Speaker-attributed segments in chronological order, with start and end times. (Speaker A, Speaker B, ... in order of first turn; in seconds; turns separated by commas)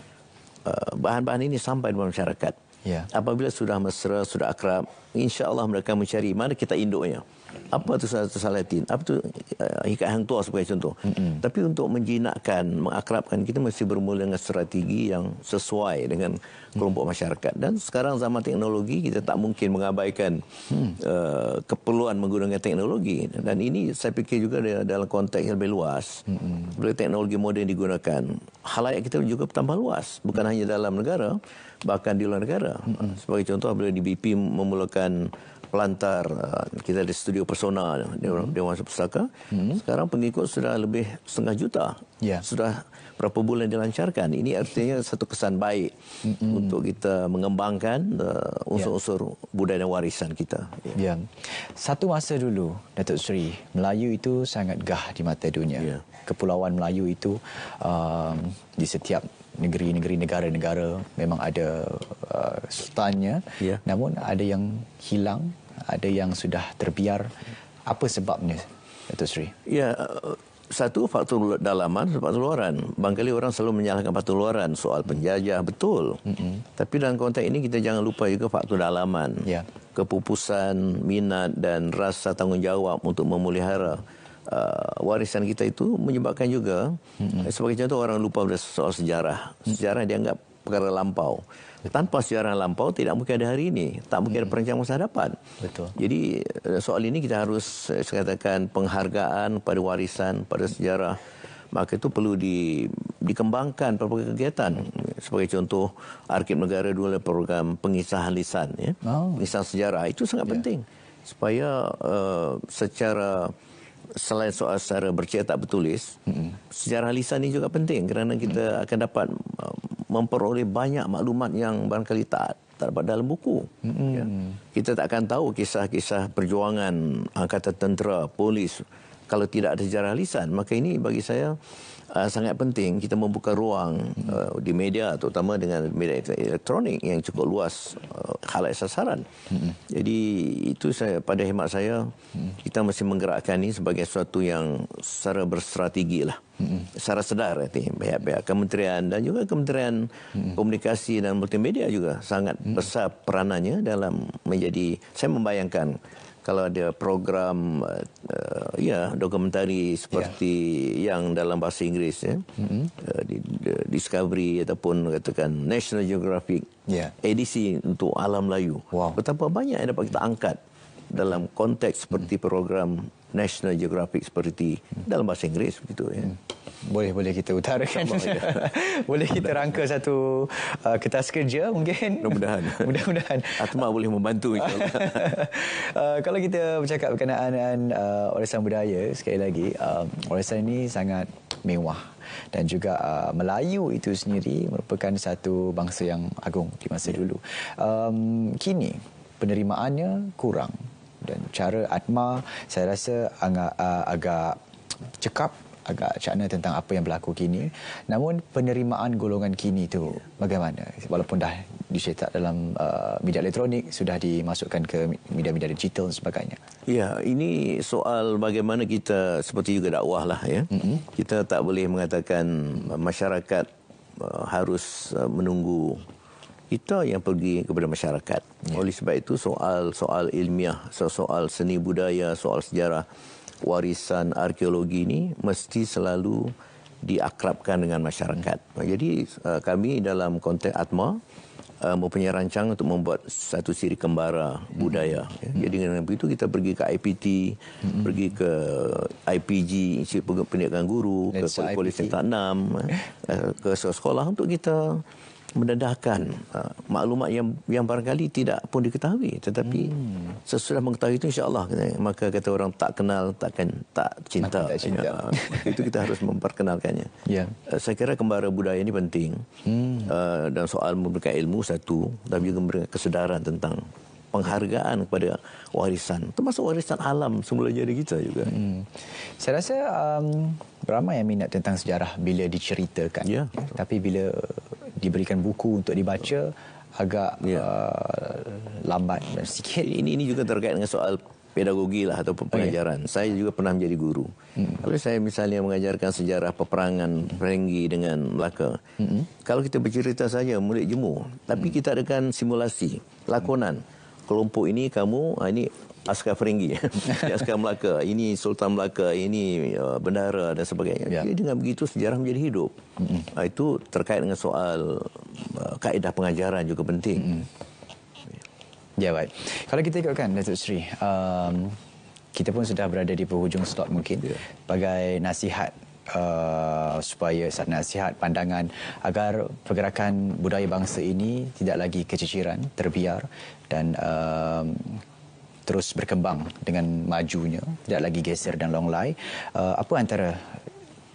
Speaker A: 0.6-2.5, Speaker A: 3.1-45.9, Speaker B: 46.2-46.7, Speaker A: 46.4-51.0, Speaker B: 50.9-67.3, Speaker B: 67.9-69.5, Speaker A: 69.7-76.2, Speaker B: 76.3-76.6, Speaker A: 76.8-95.4, Speaker B: 95.6-95.9, Speaker A: 95.9-101.2, Speaker A: 101.7-113.5, Speaker B: 109.0-109.4, Speaker A: 114.2-116.2, Speaker A: 116.7-131.6, Speaker B: 123.9-124.5, Speaker A: 132.1-162.4, Speaker B: 162.6-162.9, Speaker A: 163.0-166.7, Speaker B: 166.9-167.1, Speaker A: 167.2-170.6, Speaker A: 171.1-176.3, Speaker B: 176.8-183.8, Speaker A: 177.9-178.7, Speaker A: 182.2-182.9, Speaker A: 183.6-185.3, Speaker B: 184.6-204.6, Speaker B: 205.2-216.6, Speaker A: 216.9-226.0, Speaker A: 226.7-233.1, Speaker A: 233.6-241.2, Speaker A: 241.8-255.0, Speaker B: 251.3-252.1, Speaker A: 255.6-267.1, Speaker B: 259.9-260.3, Speaker B: 264.4-265.9, Speaker B: 267.2-267.5, Speaker A: 267.7-269.4, Speaker B: 269.6-270.1, Speaker A: 270.0-278.5, Speaker B: 278.5-289.9, Speaker A: 283.2-283.6, Speaker A: 289.8-298.8, Speaker A: 299.4-312.7, Speaker B: 313.0-313.3, Speaker A: 313.3-317.4, Speaker B: 319.0-321.8, Speaker B: 322.3-335.0, Speaker B: 335.7-340.6